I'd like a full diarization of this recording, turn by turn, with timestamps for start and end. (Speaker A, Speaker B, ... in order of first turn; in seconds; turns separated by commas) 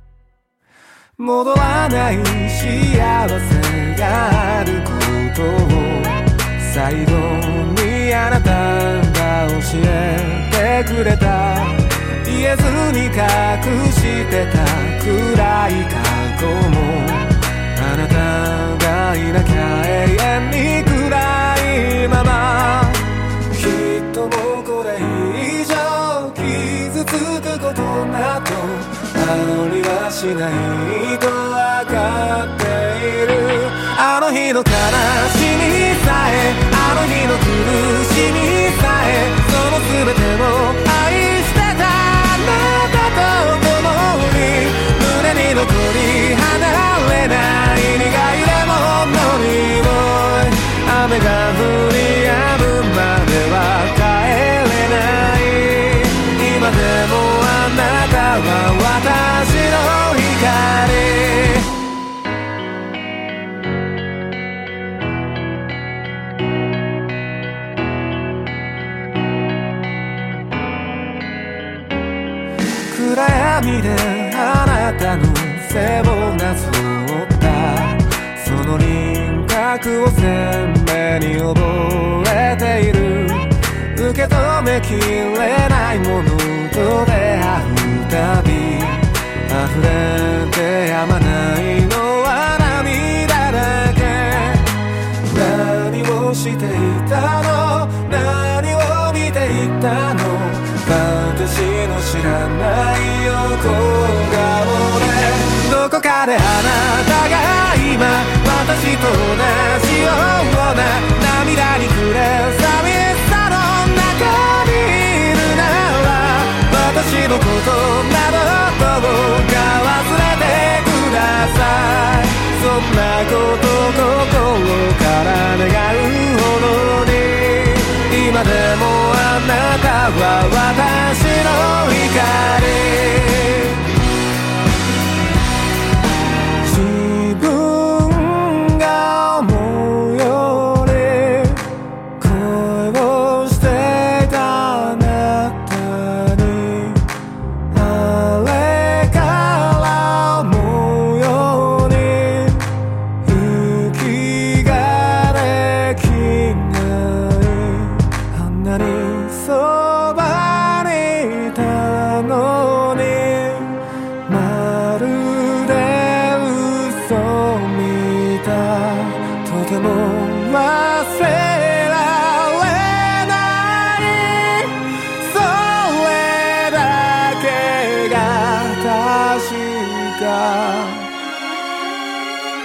Speaker A: 1.2-61.7, Speaker A: 72.9-94.7, Speaker A: 95.3-133.8, Speaker A: 136.6-141.6, Speaker A: 142.2-147.1, Speaker A: 147.7-152.7, Speaker A: 153.2-181.1